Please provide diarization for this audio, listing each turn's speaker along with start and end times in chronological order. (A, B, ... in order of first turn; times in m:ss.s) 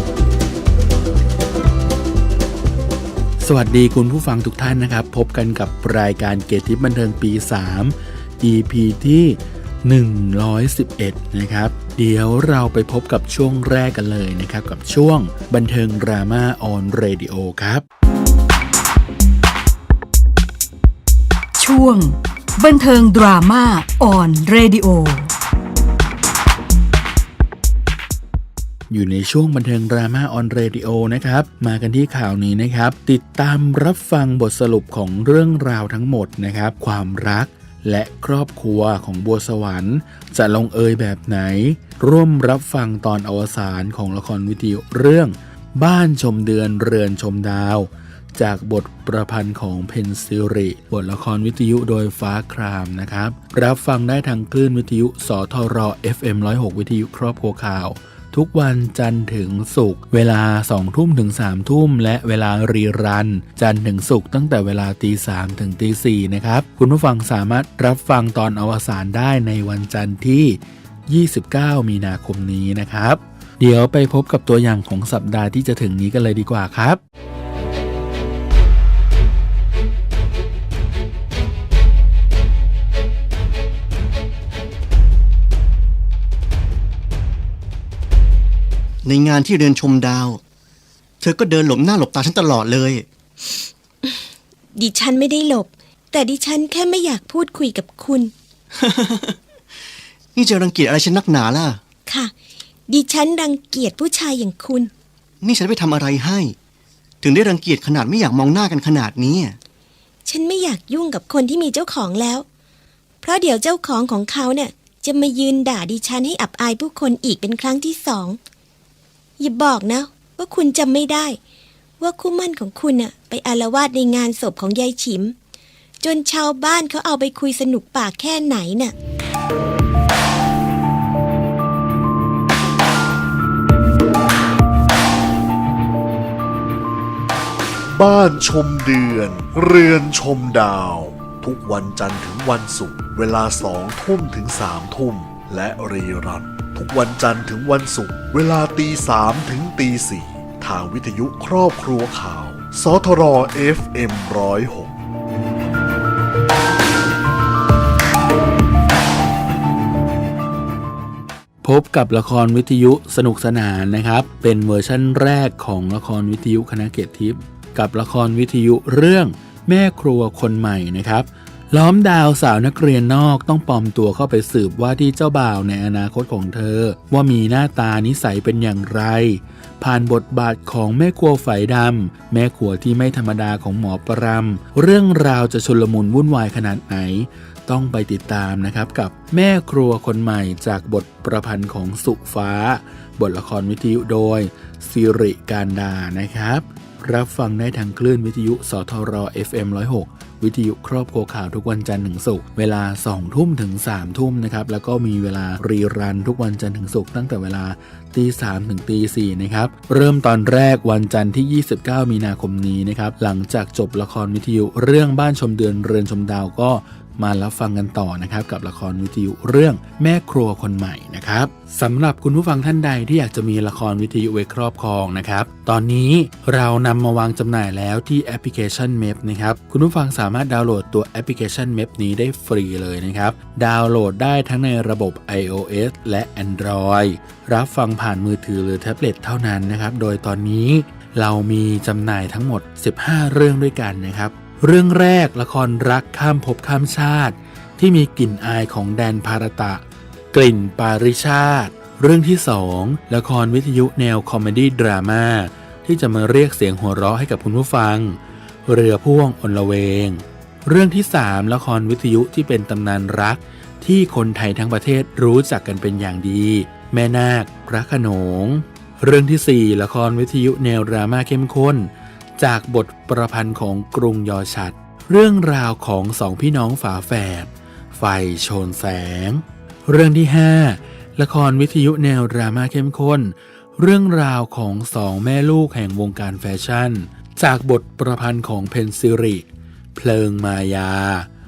0:03.4-0:17.8 A
0:21.6-0:22.1 B
0:22.6-0:25.3 B
0:28.9-1:17.0 A
1:29.0-1:30.4 C
1:31.2-1:33.1 C
1:34.7-1:38.3 D
1:38.8-1:39.4 C
1:40.3-1:41.8 C
1:42.1-1:42.3 D
1:42.9-1:44.9 D
1:45.4-1:46.6 C
1:47.2-1:49.6 C
1:50.2-1:52.4 D
1:53.2-1:58.4 D
1:59.4-2:01.4 D
2:02.0-2:05.3 D
2:06.0-2:08.9 D
2:17.9-2:34.9 E
2:41.6-4:51.3 A